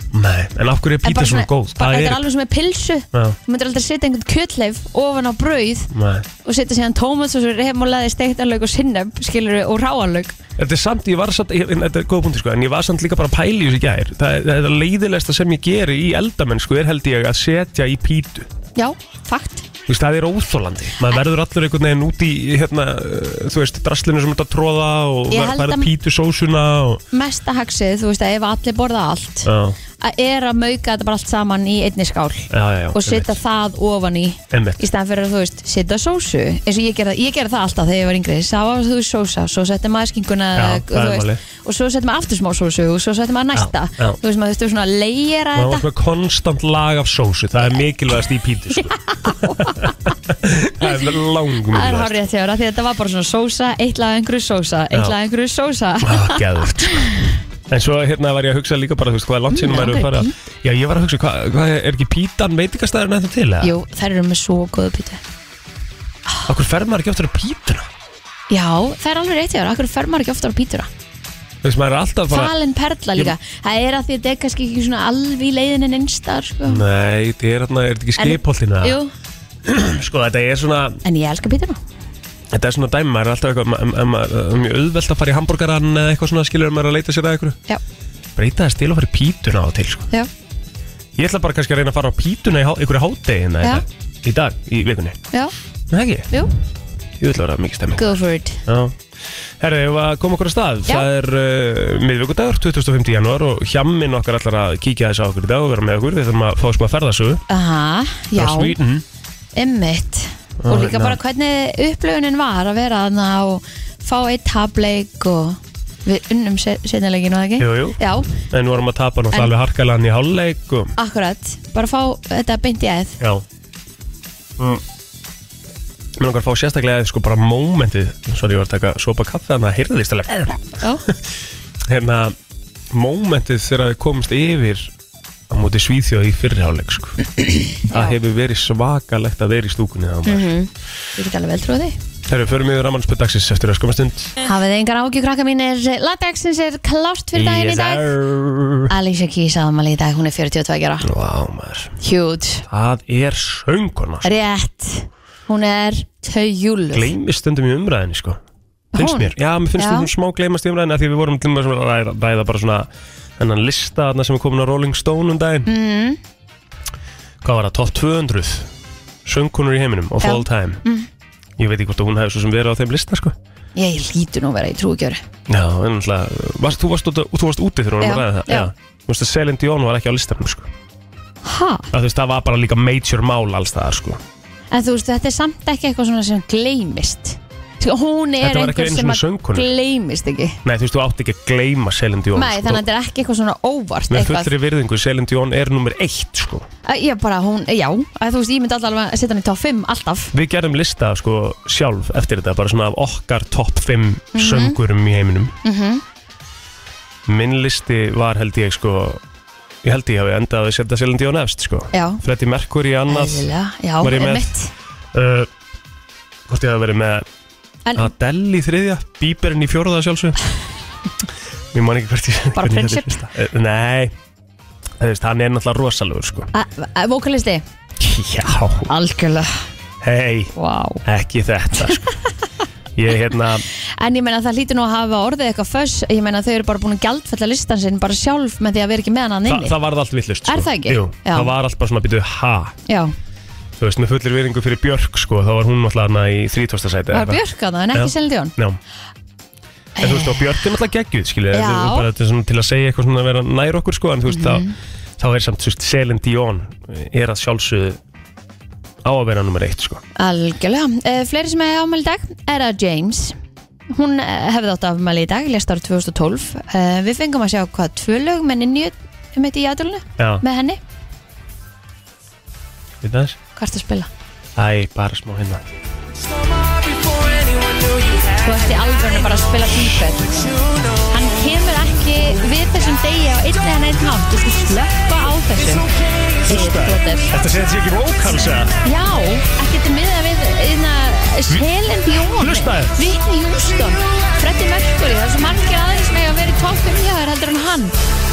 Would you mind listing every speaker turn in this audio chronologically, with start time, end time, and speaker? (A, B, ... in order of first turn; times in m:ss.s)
0:00.1-0:02.2 A
0:01.0-0:05.9 B
0:05.9-0:06.3 A
0:06.4-0:10.4 B
0:10.6-0:18.5 A
0:18.8-0:19.6 B
0:19.9-0:27.0 A
0:25.3-0:25.9 B
0:27.1-0:45.9 B
0:29.4-0:29.8 A
0:32.5-0:33.4 A
0:34.5-0:34.8 A
0:40.5-0:41.4 A
0:43.5-0:44.2 A
0:45.5-0:52.1 A
0:48.8-0:50.0 B
0:50.8-0:57.3 B
0:54.9-0:55.2 A
0:56.0-0:57.1 A
0:57.7-1:03.7 A
0:59.5-1:00.3 B
1:03.6-1:05.2 B
1:06.5-1:07.9 A
1:08.5-1:10.9 B
1:11.6-1:12.5 A
1:12.3-1:16.8 B
1:16.6-1:19.0 A
1:18.2-1:19.1 B
1:19.6-1:21.0 A
1:21.0-1:21.8 B
1:22.5-1:27.6 A
1:28.4-1:30.1 A
1:31.2-1:35.2 A
1:35.9-1:36.3 A
1:37.2-1:39.0 A
1:38.0-1:38.6 B
1:39.6-1:47.4 A
1:47.5-1:48.8 B
1:48.3-1:49.0 A
1:49.6-1:58.4 B
1:50.6-1:51.2 A
1:57.6-2:00.9 A
2:01.0-2:03.2 B
2:03.2-2:03.4 A
2:04.6-2:04.8 A
2:06.2-2:11.2 A
2:11.8-2:12.4 A
2:12.9-2:14.9 A
2:15.5-2:17.2 A
2:17.4-2:18.2 B
2:17.9-2:20.5 A
2:20.2-2:22.0 B
2:22.3-2:24.3 A
2:24.4-2:28.2 B
2:27.3-2:28.9 A
2:28.9-2:31.1 B
2:31.0-2:32.0 A
2:32.0-2:32.6 B
2:32.7-2:34.3 A
2:34.2-2:37.1 B
2:36.9-2:38.4 A
2:38.9-2:40.1 B
2:38.9-2:45.7 A
2:45.6-2:46.2 B
2:47.4-2:48.7 A
2:49.2-2:50.8 A
2:50.2-2:51.1 B
2:51.6-2:53.4 A
2:53.8-2:55.2 B
2:55.5-3:00.7 A
2:58.0-2:58.7 B
3:01.4-3:01.9 B
3:01.9-3:04.2 A
3:04.7-3:10.6 B
3:08.4-3:09.7 A
3:10.6-3:12.8 A
3:12.3-3:14.5 B
3:14.1-3:16.6 A
3:16.8-3:20.3 B
3:20.3-3:25.5 A
3:24.3-3:24.8 B
3:25.6-3:26.0 B
3:27.2-3:29.2 A
3:29.8-3:33.5 A
3:31.9-3:32.2 B
3:33.1-3:34.7 B
3:34.0-3:34.5 A
3:35.1-3:35.5 A
3:36.5-3:37.2 A
3:37.8-3:38.1 B
3:37.9-3:40.4 A
3:41.7-3:44.1 A
3:42.5-3:43.3 B
3:45.0-3:46.5 A
3:46.5-3:47.6 B
3:48.0-3:48.9 A
3:48.9-3:49.6 B
3:50.0-3:50.5 A
3:50.5-3:51.0 B
3:51.0-3:52.2 A
3:52.9-3:53.6 A
3:53.7-3:59.7 B
3:59.4-4:02.8 A
4:00.4-4:01.5 B
4:02.9-4:03.1 B
4:03.8-4:07.4 A
4:07.1-4:08.5 B
4:07.9-4:08.8 A
4:10.0-4:10.6 B
4:10.0-4:14.6 A
4:11.5-4:12.1 B
4:14.3-4:14.7 B
4:15.2-4:18.0 A
4:19.0-4:20.0 A
4:20.2-4:23.4 B
4:23.9-4:30.8 B
4:30.2-4:30.4 A
4:33.0-4:33.4 A
4:33.6-4:34.1 B
4:34.6-4:35.6 A
4:38.3-4:45.9 B
4:46.4-4:47.3 B
4:46.4-4:48.7 A
4:48.8-4:57.9 B
4:52.3-4:53.0 A